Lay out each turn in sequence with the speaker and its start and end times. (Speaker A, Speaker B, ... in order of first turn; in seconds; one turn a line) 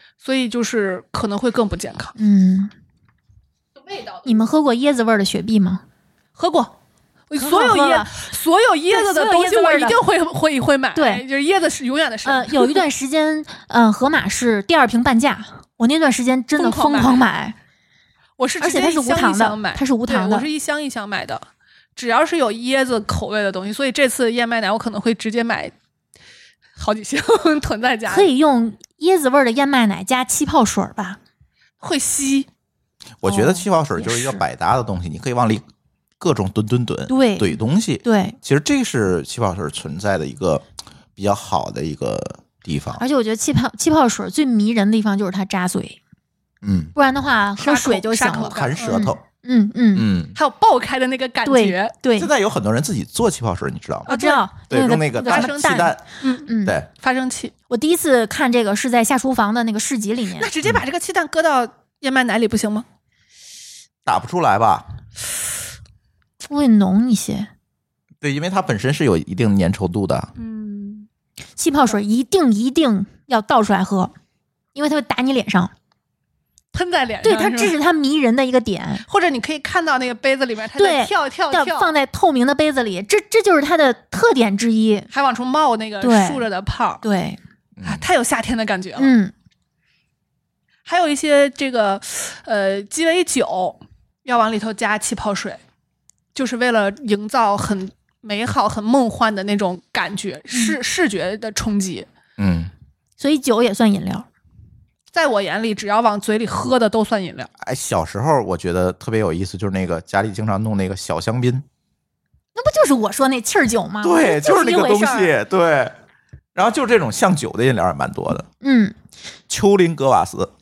Speaker A: 0.2-2.1
Speaker B: 2.2-2.7
Speaker A: 3.9-4.3
Speaker B: 4.2-5.8
Speaker A: 6.4-6.8
Speaker A: 7.3-12.8
Speaker B: 7.4-8.1
Speaker B: 8.9-10.0
Speaker B: 10.9-11.2
Speaker B: 12.2-17.6
Speaker A: 16.6-17.2
Speaker A: 18.4-25.7
Speaker B: 18.6-20.5
Speaker A: 26.8-28.3
Speaker B: 28.1-31.2
Speaker A: 31.8-32.5
Speaker C: 33.2-35.6
Speaker B: 33.2-34.4
Speaker C: 36.2-40.6
Speaker B: 37.1-38.4
Speaker C: 41.2-43.0
Speaker B: 43.0-46.0
Speaker C: 46.6-46.9
Speaker B: 47.0-50.1
Speaker A: 47.6-49.0
Speaker C: 48.4-49.2
Speaker C: 50.0-50.4
Speaker A: 50.4-51.9
Speaker B: 51.4-52.3
Speaker C: 52.2-56.0
Speaker A: 54.1-54.5
Speaker B: 54.1-56.8
Speaker A: 55.2-57.5
Speaker B: 57.7-60.5
Speaker A: 60.4-62.9
Speaker C: 64.1-64.9
Speaker B: 66.4-67.5
Speaker C: 68.2-70.3
Speaker A: 70.4-71.1
Speaker B: 71.6-74.1
Speaker B: 74.8-75.7
Speaker A: 76.7-77.8
Speaker B: 77.2-79.0
Speaker A: 79.1-81.9
Speaker B: 80.8-85.1
Speaker A: 85.1-87.0
Speaker B: 86.0-86.5
Speaker B: 87.0-87.4
Speaker C: 87.8-88.0
Speaker A: 87.8-89.1
Speaker B: 89.0-89.3
Speaker A: 90.9-95.6
Speaker A: 96.3-102.1
Speaker B: 100.5-100.8
Speaker C: 102.4-102.7
Speaker B: 103.2-104.3
Speaker A: 105.1-107.5
Speaker C: 107.6-111.6
Speaker B: 112.5-115.3
Speaker C: 114.0-115.9
Speaker C: 116.5-118.5
Speaker B: 118.6-119.0
Speaker C: 119.5-120.5